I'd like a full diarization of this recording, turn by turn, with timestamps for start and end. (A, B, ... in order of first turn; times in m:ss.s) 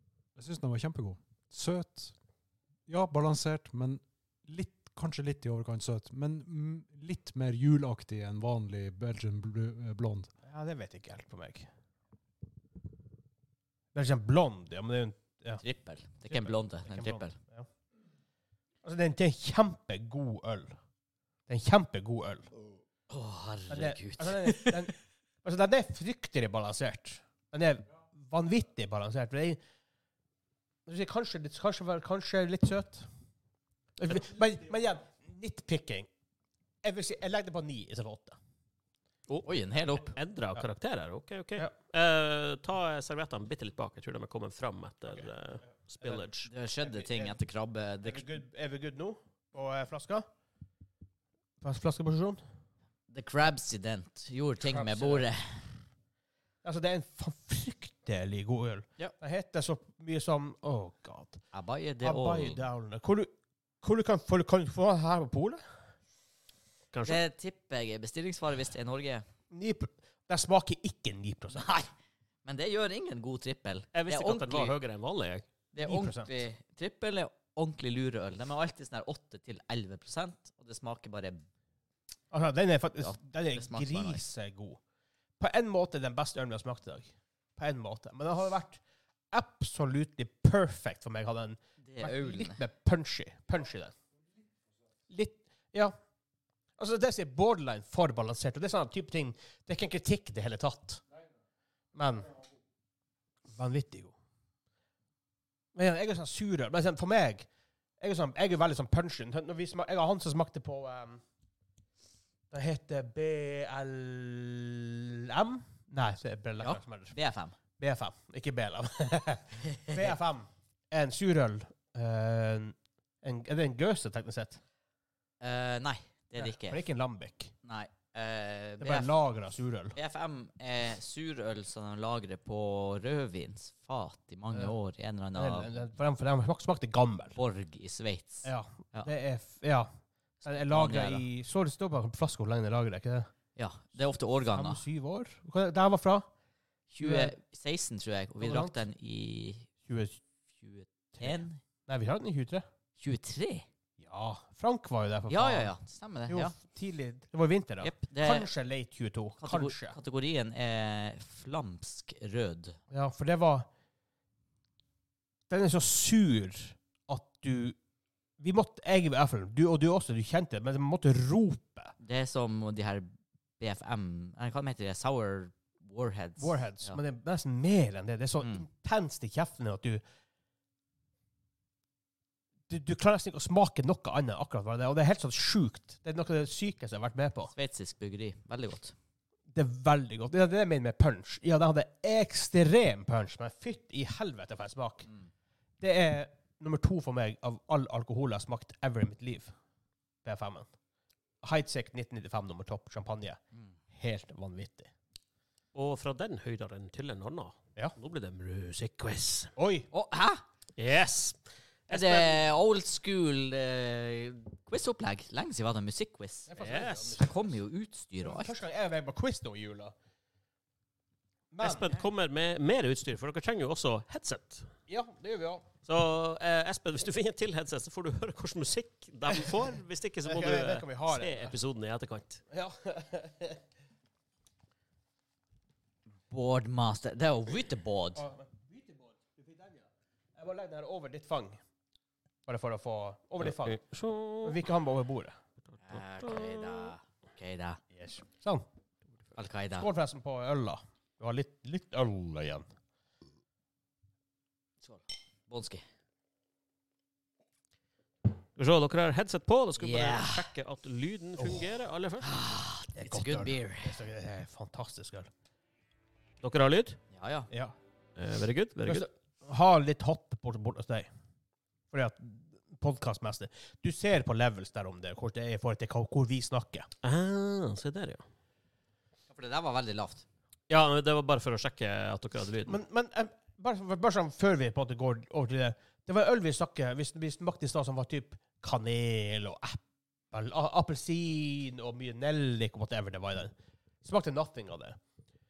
0:00.4-0:02.1 A
0:02.9-0:10.3 A
0:10.5-0:11.7 B
0:13.9-0:15.6 B
0:15.6-0:17.4 C
0:16.3-0:17.7 B
0:18.8-0:20.8 B
0:21.5-0:22.5 B
0:23.1-0:24.9 C
0:23.7-0:29.6 B
0:30.9-0:33.1 B
0:34.0-0:36.1 B
0:36.8-0:38.4 B
0:39.4-0:40.2 C
0:40.2-0:46.5 D
0:46.5-0:48.3 C
0:46.8-0:47.4 B
0:48.0-0:50.3 B
0:51.6-0:52.4 B
0:53.1-0:55.6 C
0:54.6-0:55.2 B
0:56.6-1:01.4 B
1:01.5-1:02.6 C
1:02.0-1:05.6 B
1:06.9-1:07.2 D
1:07.1-1:09.2 C
1:09.5-1:11.8 B
1:11.5-1:11.9 C
1:12.4-1:14.8 C
1:13.9-1:15.5 D
1:15.7-1:21.4 C
1:15.8-1:16.4 B
1:22.3-1:24.8 B
1:23.0-1:24.2 C
1:25.4-1:28.8 B
1:29.3-1:34.0 B
1:31.8-1:32.6 C
1:35.1-1:36.0 B
1:36.8-1:41.0 B
1:41.9-1:42.3 B
1:43.5-1:44.1 B
1:45.8-1:47.5 B
1:48.0-1:51.2 B
1:52.5-1:57.1 B
1:56.6-1:57.6 C
1:57.8-2:04.6 B
2:05.4-2:06.8 C
2:06.4-2:07.5 B
2:07.6-2:09.1 C
2:08.8-2:10.0 B
2:10.0-2:15.7 C
2:15.4-2:17.4 B
2:17.4-2:19.1 C
2:18.4-2:19.9 B
2:20.4-2:21.2 C
2:20.4-2:23.3 B
2:23.6-2:24.8 C
2:24.5-2:26.3 B
2:26.9-2:29.7 C
2:27.0-2:27.4 B
2:28.4-2:28.8 B
2:29.9-2:30.2 B
2:30.6-2:31.6 C
2:31.2-2:32.7 B
2:33.0-2:33.6 C
2:34.0-2:35.7 B
2:35.3-2:36.5 C
2:36.3-2:40.0 B
2:37.8-2:38.5 C
2:39.4-2:42.8 C
2:42.9-2:43.7 B
2:45.5-2:47.8 B
2:48.4-2:51.9 B
2:52.0-2:57.0 C
2:56.4-3:00.0 B
3:02.7-3:07.5 B
3:07.6-3:08.9 C
3:09.5-3:15.1 B
3:15.8-3:19.5 B
3:20.2-3:20.7 B
3:21.4-3:23.4 B
3:23.9-3:24.9 B
3:25.7-3:29.5 D
3:29.6-3:29.9 B
3:29.9-3:30.4 C
3:30.8-3:32.4 D
3:31.9-3:36.5 C
3:36.5-3:37.3 B
3:36.6-3:37.2 D
3:37.2-3:38.6 C
3:38.2-3:39.9 B
3:41.5-3:41.9 B
3:41.6-3:44.7 D
3:44.9-3:45.7 B
3:45.9-3:52.4 D
3:50.2-3:51.6 B
3:52.5-3:53.6 B
3:56.3-3:58.3 C
3:58.2-3:59.8 B
4:00.4-4:01.6 B
4:02.5-4:03.8 B
4:03.4-4:04.6 D
4:04.4-4:05.4 B
4:05.8-4:07.8 C
4:05.9-4:06.9 D
4:07.9-4:08.7 B
4:09.4-4:09.9 C
4:09.8-4:12.7 B
4:14.8-4:15.8 C
4:18.6-4:22.3 D
4:19.8-4:20.5 C
4:22.2-4:24.0 C
4:23.0-4:25.3 B
4:26.4-4:27.0 D
4:27.1-4:27.5 C
4:28.2-4:29.1 D
4:28.8-4:31.1 B
4:31.9-4:36.9 B
4:37.0-4:38.2 D
4:39.3-4:40.2 C
4:40.7-4:42.8 D
4:42.7-4:49.8 B
4:50.3-4:55.0 B